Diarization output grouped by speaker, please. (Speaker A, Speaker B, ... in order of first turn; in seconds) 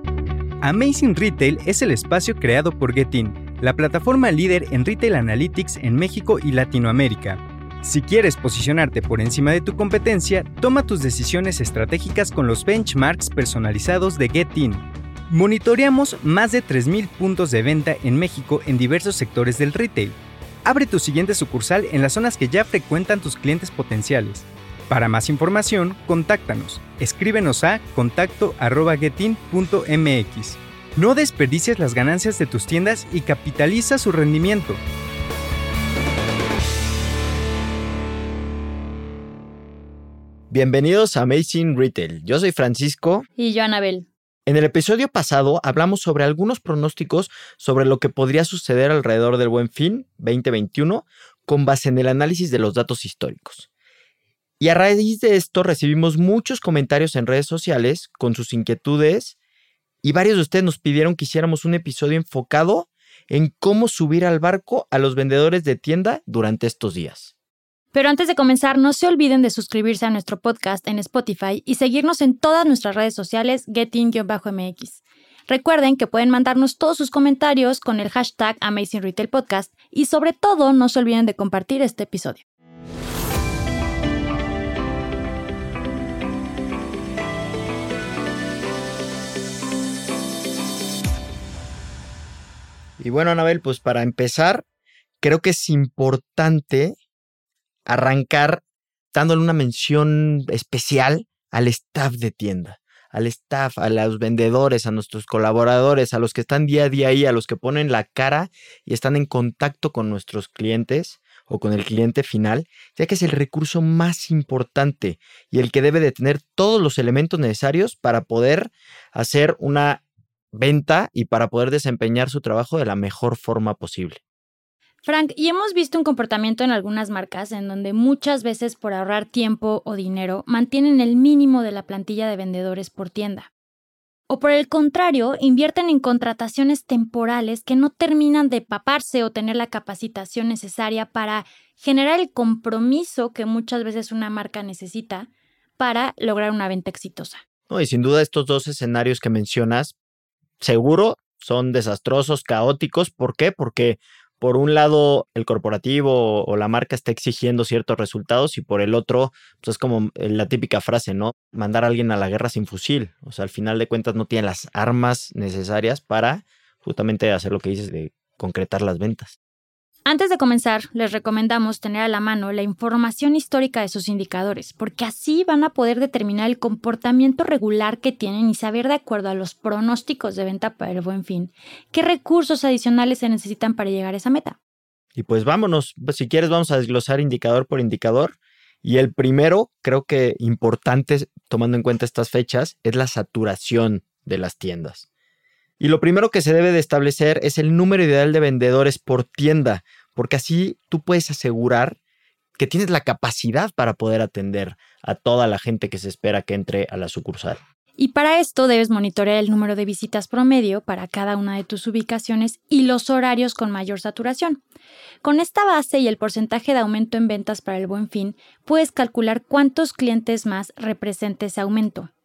Speaker A: 0.6-34.8
Speaker B: 40.5-43.3, 44.5-53.7, 54.6-59.4, 60.0-67.3, 93.0-94.6, 95.2-97.0, 97.9-124.2, 147.7-149.9, 150.6-169.4, 185.2-195.1, 195.8-202.0, 202.6-207.6
Speaker C: 43.4-44.1, 67.9-82.4, 125.0-133.5, 134.3-147.4, 170.1-184.6, 208.0-214.6, 215.2-222.1